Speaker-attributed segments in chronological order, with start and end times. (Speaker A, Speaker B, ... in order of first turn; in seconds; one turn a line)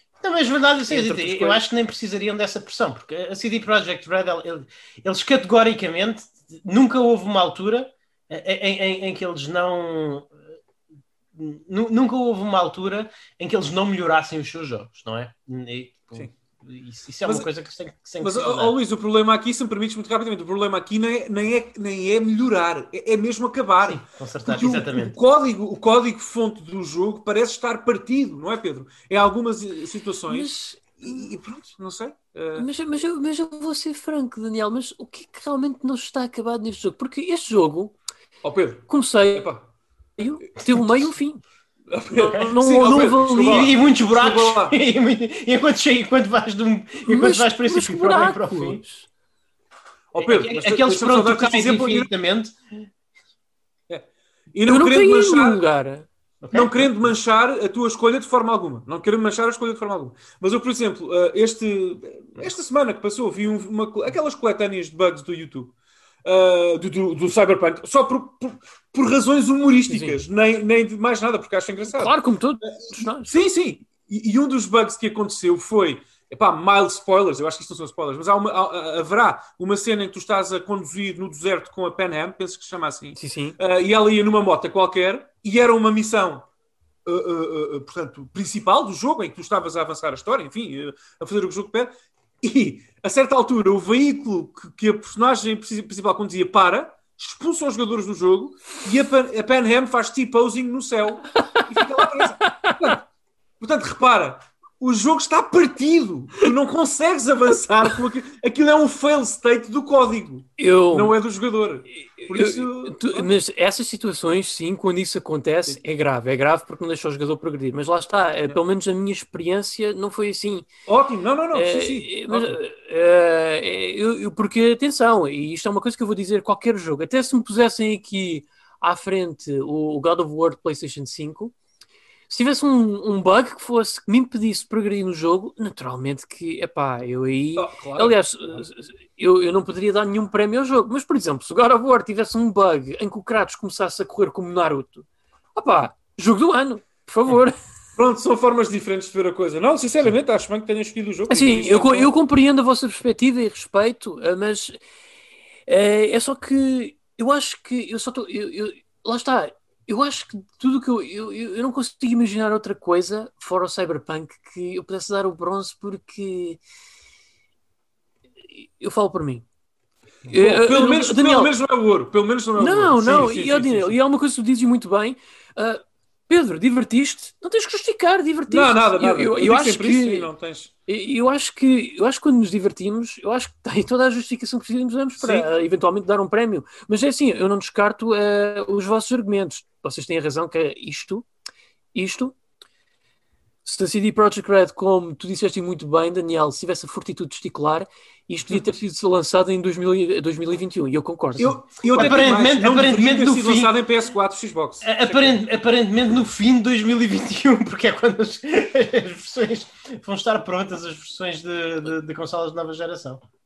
Speaker A: 0.2-10.3
Speaker B: 0.9-1.6
Speaker A: 11.3-18.8
Speaker C: 18.2-32.7
Speaker A: 23.9-25.1
Speaker B: 30.3-31.3
Speaker B: 32.6-38.0
Speaker C: 38.4-39.6
Speaker B: 38.9-39.5
Speaker B: 40.2-41.4
Speaker C: 41.9-44.8
Speaker B: 42.1-43.7
Speaker A: 43.2-48.8
Speaker B: 47.1-49.1
Speaker C: 50.1-52.1
Speaker A: 50.2-52.5
Speaker C: 53.9-55.6
Speaker B: 54.7-56.1
Speaker A: 56.4-56.9
Speaker C: 56.5-65.7
Speaker C: 66.2-72.1
Speaker B: 69.9-70.2
Speaker B: 71.9-73.4
Speaker C: 72.7-86.5
Speaker B: 83.2-83.6
Speaker C: 87.0-91.9
Speaker C: 92.4-103.0
Speaker B: 101.5-102.9
Speaker C: 103.6-113.3
Speaker B: 110.6-111.2
Speaker B: 112.2-120.7
Speaker C: 120.9-122.6
Speaker B: 121.5-131.5
Speaker B: 132.3-147.6
Speaker C: 137.6-138.6
Speaker C: 148.0-152.1
Speaker B: 151.3-154.8
Speaker B: 155.7-166.6
Speaker B: 168.6-169.4
Speaker B: 170.3-171.6
Speaker C: 170.3-174.0
Speaker B: 172.6-180.3
Speaker C: 178.5-180.7
Speaker B: 180.9-191.3
Speaker B: 191.9-192.3
Speaker B: 193.7-201.6
Speaker C: 201.4-205.4
Speaker A: 201.9-203.7
Speaker A: 204.8-213.2